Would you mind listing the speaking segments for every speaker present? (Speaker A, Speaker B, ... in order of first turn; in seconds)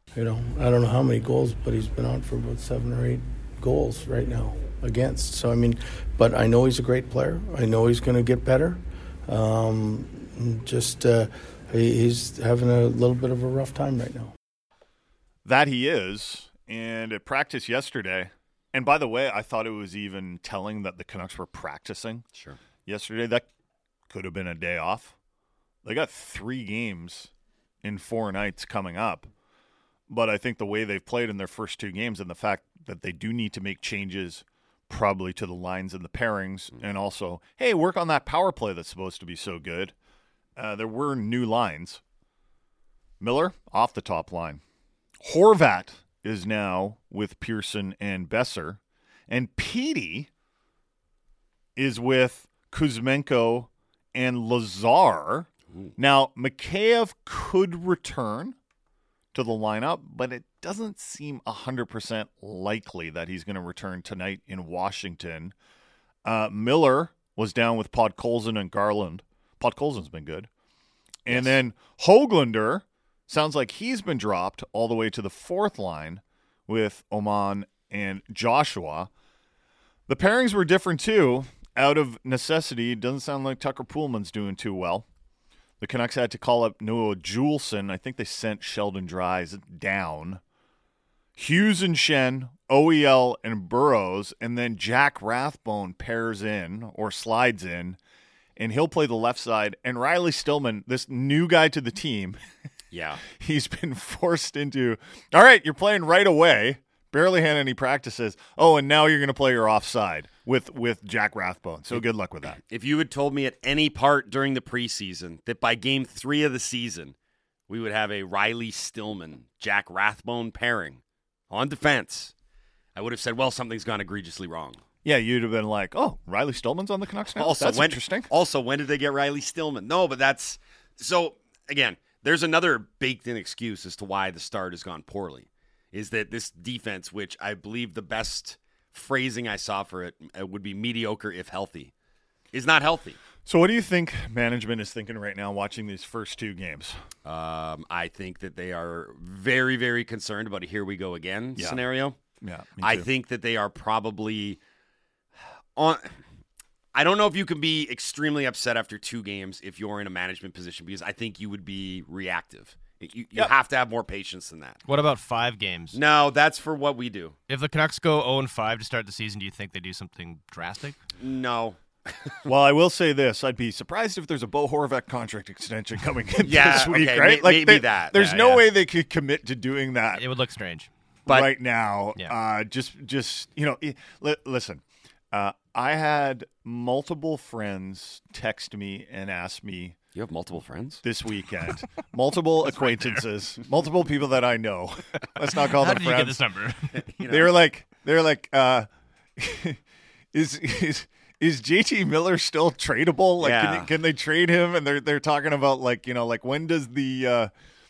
Speaker A: 0.1-14.3
Speaker B: 15.4-22.2, 22.9-23.5, 24.1-25.1, 25.8-27.3, 27.8-29.3, 30.1-39.9, 40.5-42.0, 43.2-44.6, 45.2-50.3, 51.8-58.5, 59.3-65.5, 66.2-70.5, 71.2-79.1, 80.1-85.0, 85.8-90.4, 91.4-98.0, 98.6-102.4, 103.2-112.6, 125.0-128.3, 143.4-147.0, 151.6-151.8, 152.4-153.1, 172.5-180.2, 181.3-190.0, 191.0-196.4, 197.3-199.8, 200.3-207.5
Speaker C: 71.3-71.5, 102.9-103.2, 112.6-117.1, 117.7-122.3, 123.0-124.8, 127.3-141.9, 142.5-143.2, 147.2-152.2, 152.8-154.6, 155.8-156.2, 156.9-164.8, 165.9-167.3, 171.2-172.4, 176.4-178.2, 181.3-181.5, 190.2-191.0, 197.2-197.4, 203.4-203.9
Speaker D: 164.9-166.0, 167.5-171.0, 178.1-178.6, 180.2-180.9, 192.7-193.2, 195.6-197.1